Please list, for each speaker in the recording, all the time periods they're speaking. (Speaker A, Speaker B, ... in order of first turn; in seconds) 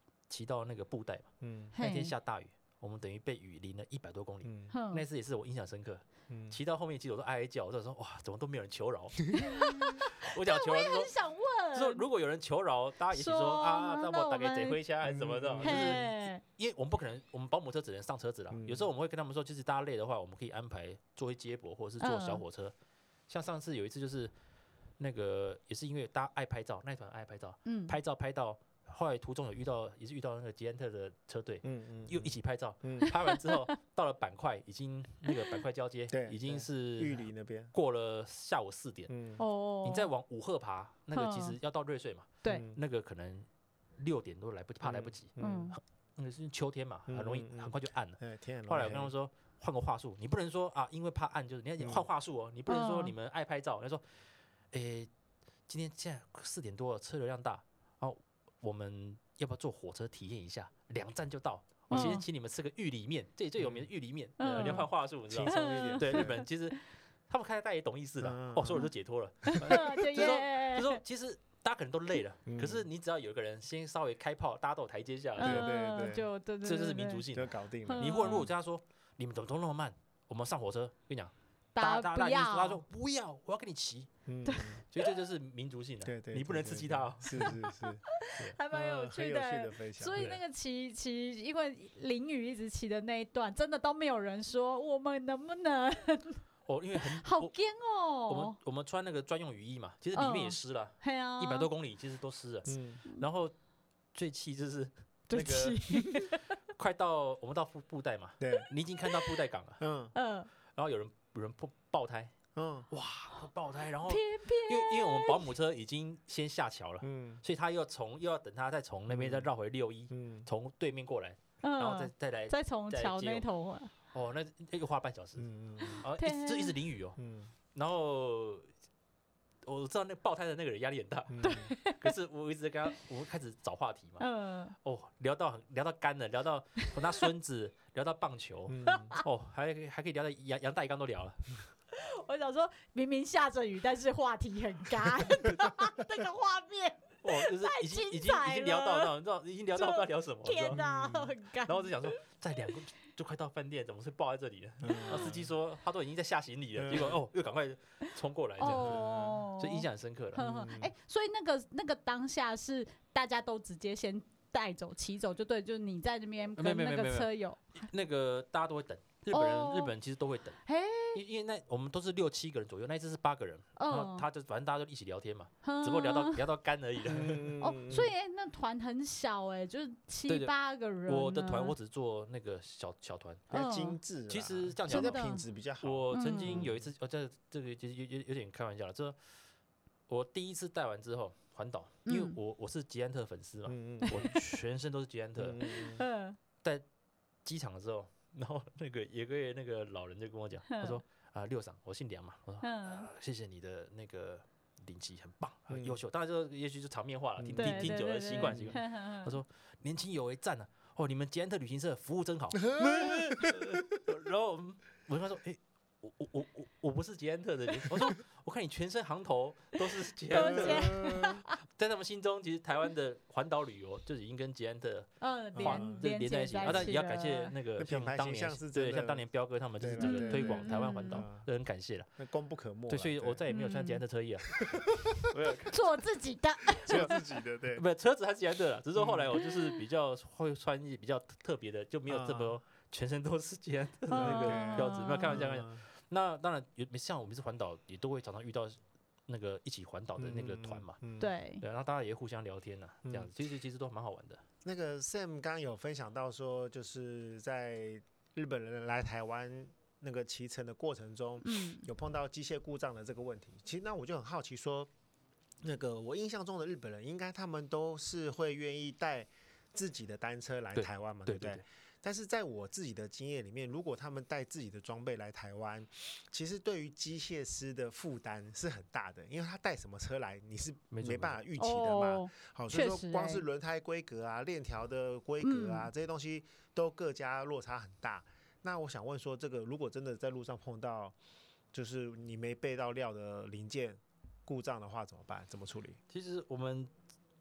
Speaker A: 0.3-1.3, 1.8-11.1, 11.7-22.7, 23.3-24.3, 25.0-39.1, 39.8-54.0, 54.7-55.1, 55.7-75.7, 76.6-84.1, 84.9-87.5, 96.7-97.5, 98.3-103.5, 104.1-106.2, 106.8-109.8, 110.8-112.3, 112.9-123.5, 124.1-125.5, 126.0-127.2, 127.7-128.7, 129.6-134.2, 134.8-141.6, 147.2-150.8, 151.6-160.5, 166.6-170.6, 171.1-177.5, 180.3-180.5, 181.1-183.5, 184.3-185.3, 185.8-189.2, 190.1-195.7, 197.4-232.1, 232.9-235.8, 236.9-237.2, 237.7-251.0, 251.6-254.4, 270.7-271.6, 280.9-281.4, 296.1-296.9
Speaker B: 1.4-1.7, 4.4-4.7, 6.3-6.6, 15.0-16.0, 18.5-18.9, 31.6-33.1, 36.1-37.7, 39.1-39.4, 42.5-42.8, 44.8-45.7, 47.1-49.1, 51.8-52.0, 63.6-63.9, 65.3-66.4, 68.2-68.9, 72.5-72.8, 75.4-76.2, 77.3-78.5, 84.3-84.8, 86.0-88.0, 88.7-90.4, 102.7-103.0, 108.4-108.7, 109.8-110.1, 112.5-112.9, 117.0-117.4, 119.1-119.5, 120.1-120.5, 125.4-126.0, 127.2-127.5, 131.3-131.7, 138.7-139.1, 150.7-151.3, 154.8-155.5, 156.8-157.2, 158.6-159.4, 160.3-160.9, 177.1-178.1, 183.5-186.9, 193.7-194.3, 195.4-196.0, 205.7-206.0, 207.4-208.8, 212.6-213.8, 220.3-221.4, 225.5-226.0, 226.6-226.9, 227.8-229.2, 229.8-231.5, 232.2-233.4, 234.6-235.6, 236.8-237.8, 238.9-239.3, 242.1-242.6, 244.1-245.8, 250.2-251.3, 254.6-264.9, 265.6-291.1, 291.7-296.0
Speaker C: 1.7-2.1, 4.7-5.0, 9.3-12.0, 13.1-14.8, 15.6-16.4, 22.0-22.4, 27.6-28.0, 33.1-33.6, 39.4-40.1, 41.1-41.6, 45.4-45.8, 52.7-53.1, 61.9-62.2, 64.4-64.9, 65.5-66.7, 69.5-71.0, 75.4-77.2, 77.8-78.5, 81.7-82.8, 84.5-84.8, 88.2-96.4, 97.1-98.6, 100.1-101.7, 105.3-106.5, 110.1-110.5, 114.1-115.4, 121.6-123.9, 126.1-126.8, 131.4-132.1, 134.2-134.7, 138.8-139.2, 141.9-149.1, 149.8-152.2, 158.6-167.8, 169.3-169.9, 170.7-171.2, 173.8-174.3, 175.6-176.4, 177.6-181.7, 183.5-184.0, 184.9-185.4, 186.1-186.7, 192.1-192.3, 194.0-194.3, 195.6-196.4, 200.7-201.0, 202.6-203.1, 207.6-209.3, 220.3-221.6, 225.2-227.5, 230.0-231.2, 233.5-234.0, 235.7-237.2, 239.4-239.7, 244.1-245.4, 251.2-251.6, 261.4-261.9, 281.6-283.4, 285.4-285.9